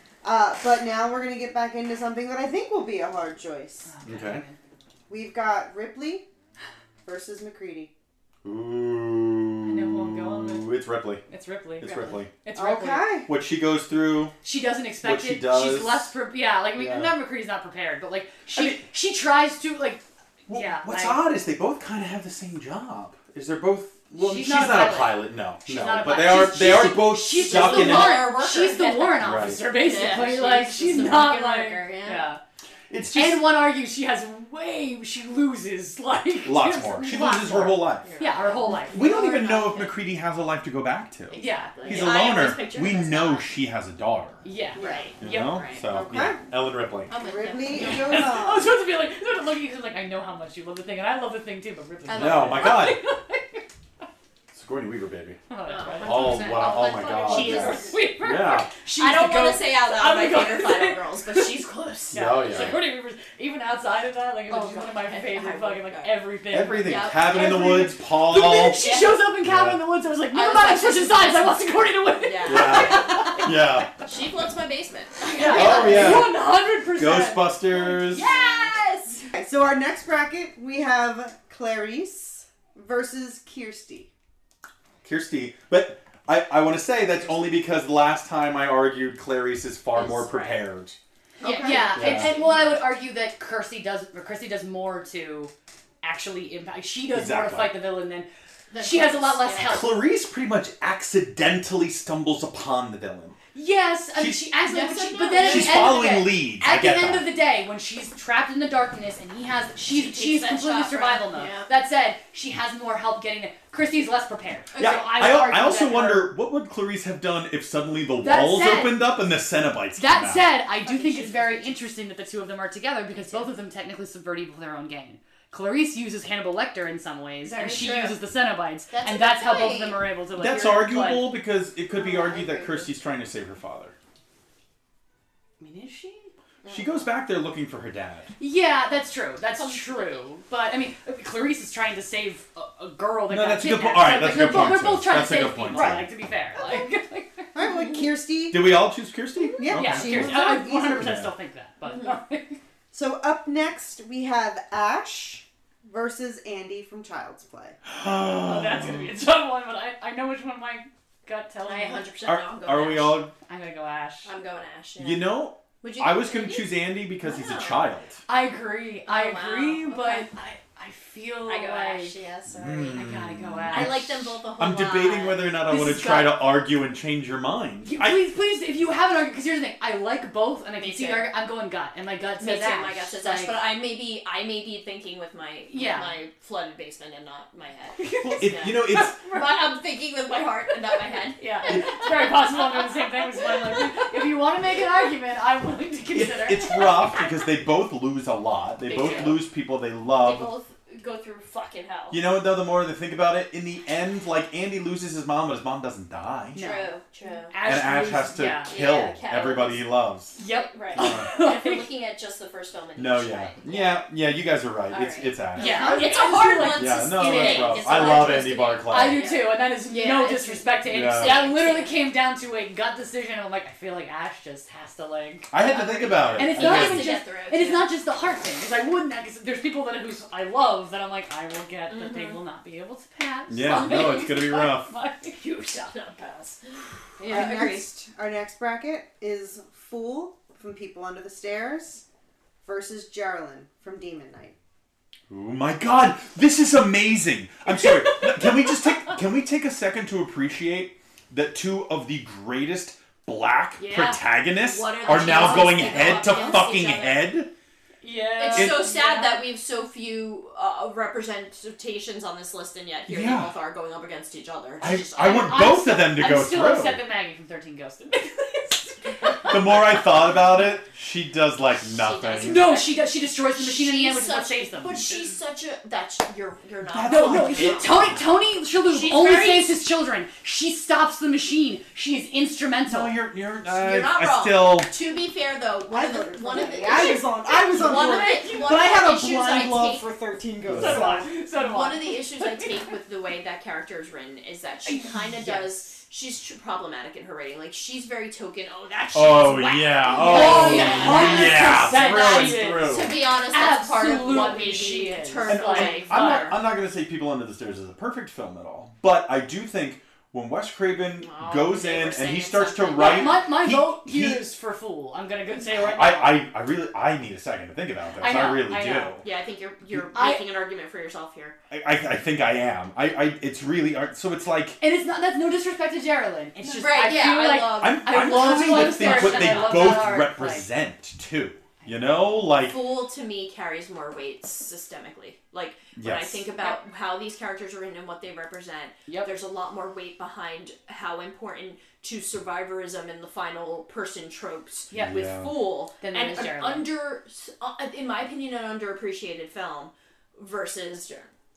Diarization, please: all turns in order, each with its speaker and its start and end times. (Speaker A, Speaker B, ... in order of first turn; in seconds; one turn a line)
Speaker A: 0.2-3.9
Speaker B: 3.8-4.6
Speaker C: 4.0-4.4
Speaker A: 5.1-6.2
Speaker A: 7.0-7.9
Speaker C: 8.4-11.2
Speaker B: 9.6-10.7
Speaker B: 11.3-13.2
Speaker C: 11.8-12.3
Speaker A: 12.5-13.3
Speaker C: 13.2-14.3
Speaker B: 14.4-21.2
Speaker C: 15.0-16.1
Speaker C: 16.7-17.1
Speaker C: 18.5-18.8
Speaker C: 20.5-28.4
Speaker B: 24.1-32.4
Speaker D: 27.3-32.3
Speaker C: 29.1-29.6
Speaker C: 32.9-33.5
Speaker B: 33.1-39.8
Speaker C: 36.4-38.1
Speaker D: 38.0-39.9
Speaker C: 38.8-44.4
Speaker B: 41.3-42.1
Speaker D: 41.7-43.5
Speaker B: 44.4-45.6
Speaker D: 44.7-45.8
Speaker A: 44.8-45.1
Speaker C: 45.2-47.1
Speaker A: 45.8-46.4
Speaker D: 47.1-48.4
Speaker A: 47.1-48.8
Speaker B: 47.8-53.6
Speaker D: 52.0-52.9
Speaker C: 52.1-53.0
Speaker C: 54.5-55.4
Speaker B: 55.5-61.5
Speaker D: 55.6-58.0
Speaker C: 56.0-58.7
Speaker D: 59.0-62.7
Speaker B: 62.1-73.5
Speaker C: 62.1-62.8
Speaker D: 64.5-66.2
Speaker C: 66.5-68.8
Speaker D: 66.8-67.9
Speaker D: 68.7-69.2
Speaker C: 69.4-69.8
Speaker D: 70.3-73.4
Speaker C: 72.4-74.0
Speaker D: 74.0-76.3
Speaker B: 75.2-78.2
Speaker C: 75.4-78.3
Speaker D: 77.8-79.3
Speaker A: 79.3-84.1
Speaker C: 85.0-91.0
Speaker D: 89.9-90.6
Speaker A: 91.4-91.9
Speaker D: 91.4-92.8
Speaker B: 91.4-98.3
Speaker C: 91.9-92.3
Speaker C: 97.1-97.8
Speaker D: 98.7-99.8
Speaker B: 98.8-99.9
Speaker C: 99.6-103.3
Speaker B: 103.5-116.3
Speaker C: 104.2-104.4
Speaker D: 104.7-106.0
Speaker C: 105.2-107.3
Speaker D: 109.8-111.7
Speaker C: 114.8-120.6
Speaker B: 118.2-119.0
Speaker B: 120.0-131.3
Speaker D: 120.8-121.8
Speaker D: 123.1-123.5
Speaker D: 127.4-128.2
Speaker D: 128.9-130.1
Speaker C: 130.3-133.9
Speaker D: 131.9-132.9
Speaker B: 135.6-136.3
Speaker D: 136.6-137.1
Speaker C: 136.7-138.3
Speaker B: 138.4-147.5
Speaker D: 139.5-140.2
Speaker C: 143.3-146.2
Speaker A: 147.5-148.8
Speaker D: 147.6-148.0
Speaker C: 148.5-151.3
Speaker A: 149.6-151.2
Speaker B: 149.7-152.6
Speaker D: 151.8-152.2
Speaker A: 152.9-157.8
Speaker C: 157.9-159.1
Speaker B: 158.4-162.1
Speaker D: 161.6-163.2
Speaker C: 162.2-163.3
Speaker B: 163.5-164.3
Speaker D: 164.2-167.9
Speaker C: 165.0-168.2
Speaker B: 168.3-172.1
Speaker D: 169.1-170.3
Speaker D: 171.4-173.1
Speaker C: 172.5-178.2
Speaker B: 172.9-173.9
Speaker D: 173.7-176.2
Speaker B: 175.7-176.3
Speaker B: 177.8-183.6
Speaker D: 180.8-181.3
Speaker D: 182.4-193.2
Speaker B: 185.7-186.1
Speaker B: 188.0-189.4
Speaker C: 188.2-189.2
Speaker B: 191.4-197.3
Speaker C: 191.7-192.3
Speaker C: 196.1-200.5
Speaker B: 198.8-199.4
Speaker D: 198.9-199.4
Speaker D: 200.1-202.2
Speaker C: 202.1-206.7
Speaker B: 206.5-206.9
Speaker D: 206.6-207.5
Speaker B: 207.5-208.8
Speaker C: 207.6-210.4
Speaker D: 208.7-209.8
Speaker B: 210.3-211.8
Speaker D: 210.7-214.0
Speaker C: 210.9-211.3
Speaker C: 213.0-219.3
Speaker D: 214.9-222.0
Speaker B: 215.6-235.9
Speaker A: 215.7-216.2
Speaker C: 220.8-221.4
Speaker C: 225.5-227.1
Speaker D: 226.2-227.9
Speaker D: 231.9-232.4
Speaker C: 233.5-234.9
Speaker D: 233.7-234.3
Speaker D: 235.8-236.6
Speaker D: 237.2-237.9
Speaker A: 237.3-242.0
Speaker A: 242.6-244.6
Speaker C: 245.3-257.5
Speaker B: 253.8-254.2
Speaker D: 254.6-257.4
Speaker B: 255.0-257.0
Speaker B: 258.0-259.5
Speaker D: 258.4-265.7
Speaker C: 258.5-258.9
Speaker C: 263.1-263.5
Speaker C: 264.8-267.0
Speaker B: 264.9-269.8
Speaker C: 269.4-272.6
Speaker D: 271.8-278.2
Speaker B: 272.4-275.1
Speaker C: 276.8-278.2
Speaker B: 277.1-283.1
Speaker D: 278.9-279.8
Speaker C: 282.9-284.9
Speaker D: 283.7-290.1
Speaker A: 285.9-291.3
Speaker B: 287.1-288.6
Speaker C: 290.6-291.1
Speaker B: 290.8-292.9
Speaker D: 291.3-306.6
Speaker B: 294.9-295.9
Speaker C: 299.1-303.1
Speaker B: 300.1-306.6
Speaker C: 305.4-314.4
Speaker D: 311.2-313.4
Speaker B: 312.9-316.4
Speaker C: 315.7-319.2
Speaker B: 318.2-319.1
Speaker D: 319.2-321.6
Speaker B: 320.1-320.4
Speaker C: 321.7-324.8
Speaker B: 324.8-330.6
Speaker D: 326.6-330.2
Speaker C: 327.5-332.8
Speaker B: 331.8-332.1
Speaker D: 332.7-351.3
Speaker C: 335.9-336.5
Speaker B: 344.9-345.4
Speaker C: 344.9-345.5
Speaker B: 346.0-346.9